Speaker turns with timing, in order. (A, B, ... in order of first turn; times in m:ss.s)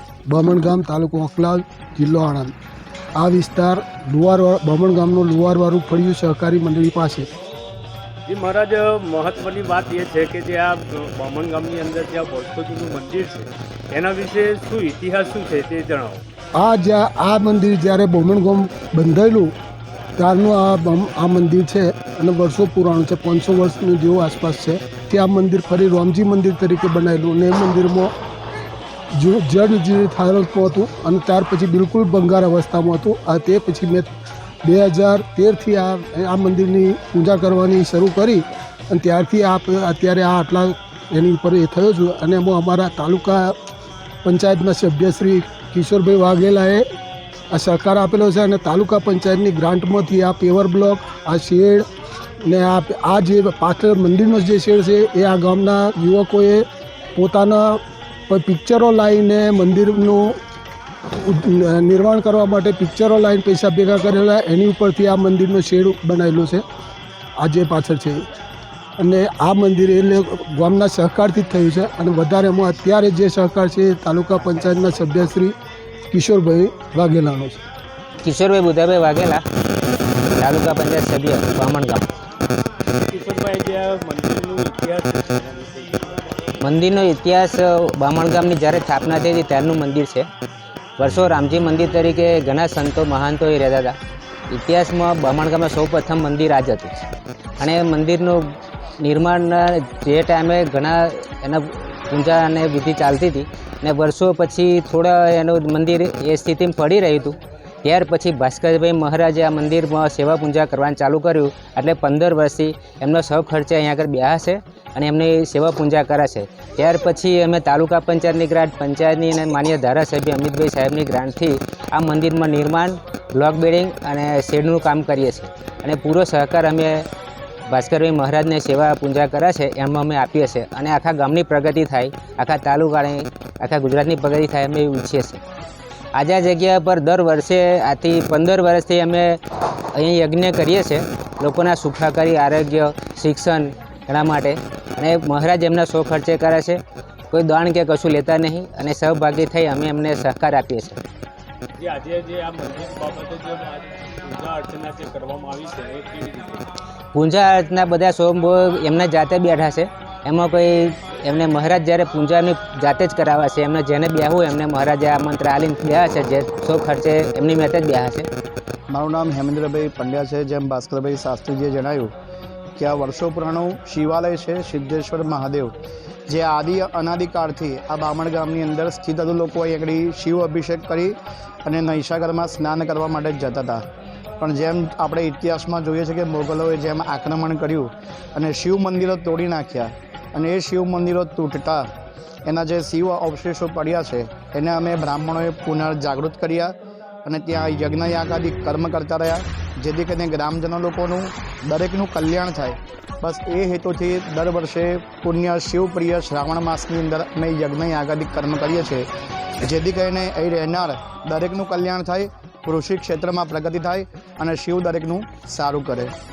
0:00.3-0:02.5 A
0:03.2-0:07.3 A
0:08.3-0:16.2 B
0:16.6-0:19.5 A
0:20.2-0:28.1 A
0:29.2-0:34.1 A
0:34.6-0:43.6 A
0:44.2-0:46.9 A
0:47.5-0:51.9 A
0:52.4-1:00.4 A
1:01.1-1:06.6 A
1:07.4-1:08.2 A
1:09.0-1:15.6 A
1:16.1-1:17.6 A
1:18.2-1:19.4 C
1:20.4-1:22.1 C
1:22.9-1:26.2 B
1:26.6-1:30.3 C
1:31.0-1:34.0 C
1:34.5-1:37.0 C
1:37.6-2:07.1 C
2:07.7-2:15.4 C
2:16.2-2:19.4 C
2:19.9-2:26.8 C
2:27.3-2:31.0 C
2:31.8-2:36.7 B
2:37.1-2:48.3 C
2:48.9-2:52.1 D
2:52.8-2:55.7 D
2:56.3-3:03.8 D
3:04.4-3:11.9 D
3:12.5-3:16.7 D
3:17.2-3:29.1 D
3:29.6-3:36.1 D